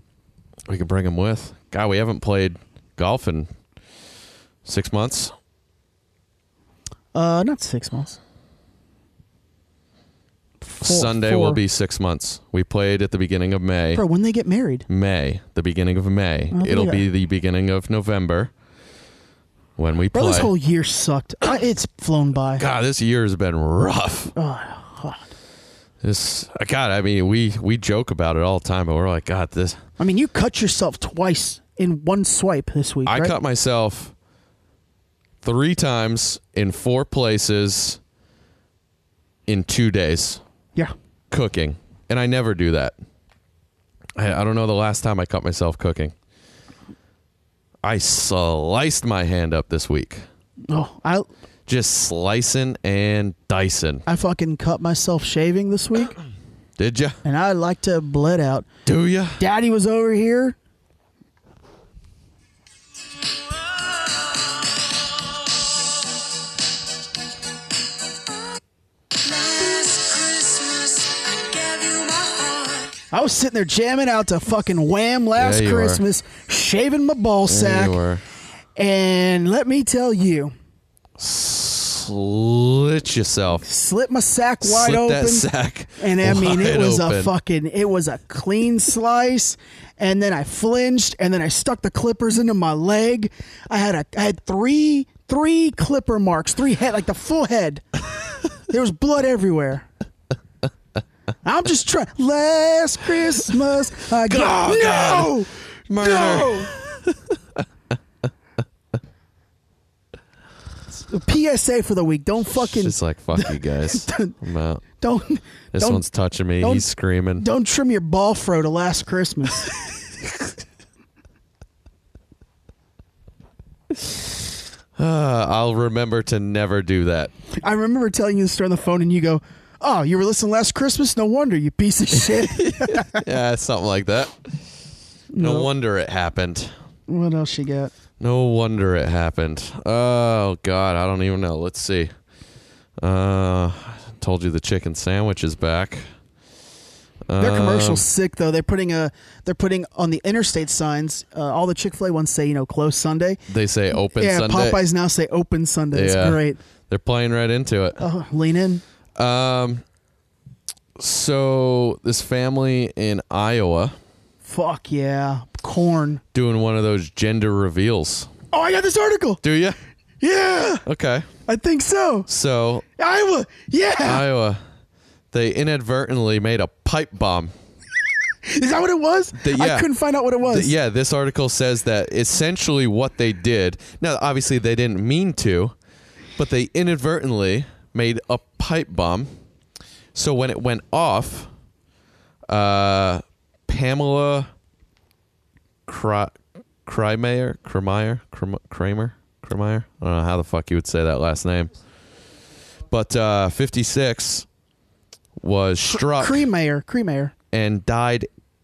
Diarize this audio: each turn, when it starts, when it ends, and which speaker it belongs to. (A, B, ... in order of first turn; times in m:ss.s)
0:00.7-0:03.5 A
0:04.6-0:05.3 A
0:07.1-0:08.2 B
0:10.6-0:11.6 B
0:10.8-0:14.0 A
0:13.9-0:14.9 B
0:14.9-0:18.5 A
0:16.5-0:17.0 B
0:19.8-0:20.5 A
0:20.1-0:22.6 B
0:22.6-0:24.3 A
0:24.4-0:25.3 B
0:26.0-0:29.8 A
0:30.0-0:33.4 B
0:33.1-0:34.1 A
0:35.4-0:38.0 A
0:39.5-0:40.4 A
0:41.3-0:43.0 A
0:44.2-0:46.1 A
0:47.8-0:50.2 A
0:50.7-0:51.3 B
0:51.7-0:54.0 A
0:54.1-0:56.2 B
0:56.8-0:57.2 A
0:57.2-0:58.7 B
0:58.9-0:59.4 A
0:59.4-1:00.6 B
1:09.2-1:12.9 C
1:13.1-1:18.0 B
1:15.4-1:16.0 A
1:17.5-1:18.2 A
1:18.8-1:20.5 B
1:21.2-1:23.6 A
1:23.6-1:37.8 B
1:24.6-1:27.3 A
1:38.7-1:39.9 B
1:41.4-1:46.7 B
1:44.3-1:47.6 A
1:51.0-1:54.4 B
1:52.6-1:54.8 A
1:55.0-1:56.0 B
1:55.7-1:57.5 A
1:56.6-1:56.9 B
1:57.4-1:59.7 B
2:05.0-2:07.3 A
2:07.6-2:13.2 B
2:12.1-2:14.6 A
2:15.3-2:15.7 B
2:15.4-2:16.7 A
2:17.1-2:17.9 B
2:18.2-2:22.1 A
2:23.0-2:26.0 A
2:27.3-2:28.0 A
2:27.4-2:33.4 B
2:33.5-2:34.8 A
2:34.1-2:36.6 B
2:35.9-2:38.0 A
2:38.0-2:38.8 B
2:39.2-2:39.8 A
2:41.0-2:44.0 A
2:44.5-2:46.2 B
2:46.3-2:48.3 A
2:48.5-2:49.4 B
2:49.4-2:49.8 A
2:50.2-2:50.8 B
2:50.8-2:51.3 A
2:51.5-2:52.3 B
2:52.3-2:52.8 A
2:53.0-2:54.3 B
2:54.0-2:54.6 A
2:55.3-2:57.5 A
2:58.5-3:00.7 B
2:59.4-2:59.9 A
3:00.4-3:05.7 A
3:06.4-3:09.3 A
3:10.1-3:11.5 A
3:12.5-3:14.5 A
3:15.9-3:16.4 A
3:16.9-3:21.7 A
3:22.9-3:24.5 A
3:25.4-3:26.5 A
3:25.9-3:27.3 B
3:27.5-3:28.3 A